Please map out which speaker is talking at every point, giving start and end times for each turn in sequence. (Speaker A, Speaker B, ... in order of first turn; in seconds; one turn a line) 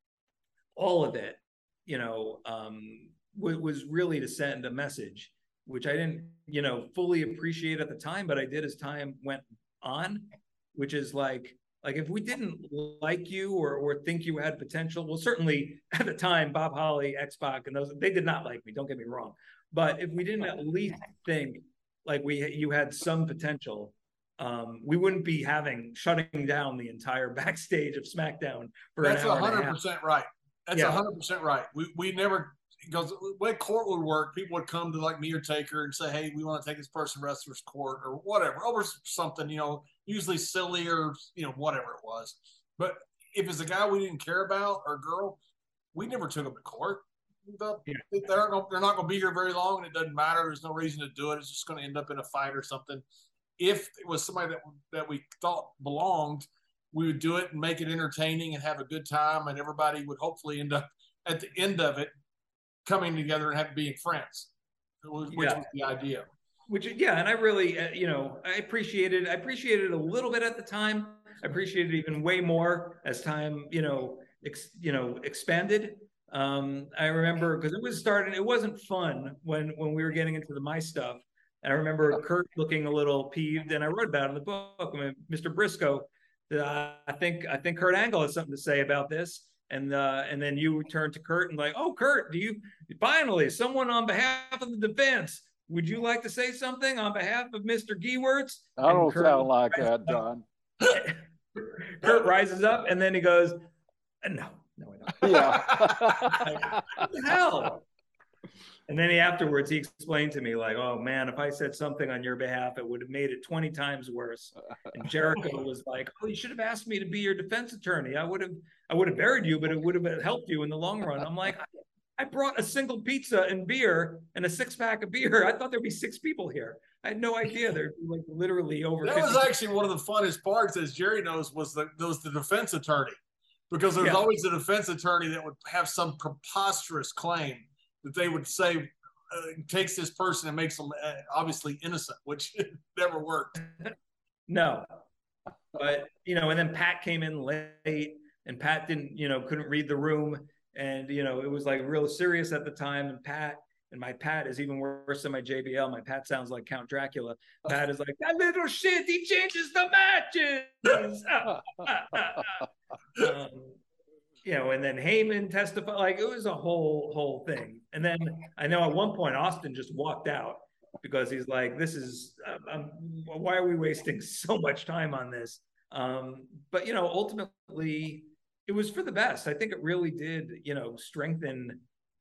Speaker A: 0.8-29.8
Speaker B: 29.0-45.4
Speaker A: 30.7-31.0
Speaker B: 46.0-53.0
Speaker B: 53.6-62.1
Speaker B: 62.9-64.5
Speaker B: 65.0-66.3
Speaker A: 65.3-65.6
Speaker A: 66.7-100.2
Speaker C: 98.8-100.4
Speaker A: 100.9-103.6
Speaker A: 104.2-105.8
Speaker C: 105.2-106.8
Speaker B: 105.5-106.5
Speaker A: 106.4-107.8
Speaker A: 108.9-129.5
Speaker B: 129.0-133.2
Speaker B: 133.7-143.6
Speaker A: 134.0-134.3
Speaker A: 144.5-144.9
Speaker A: 145.7-163.8
Speaker A: 164.4-181.8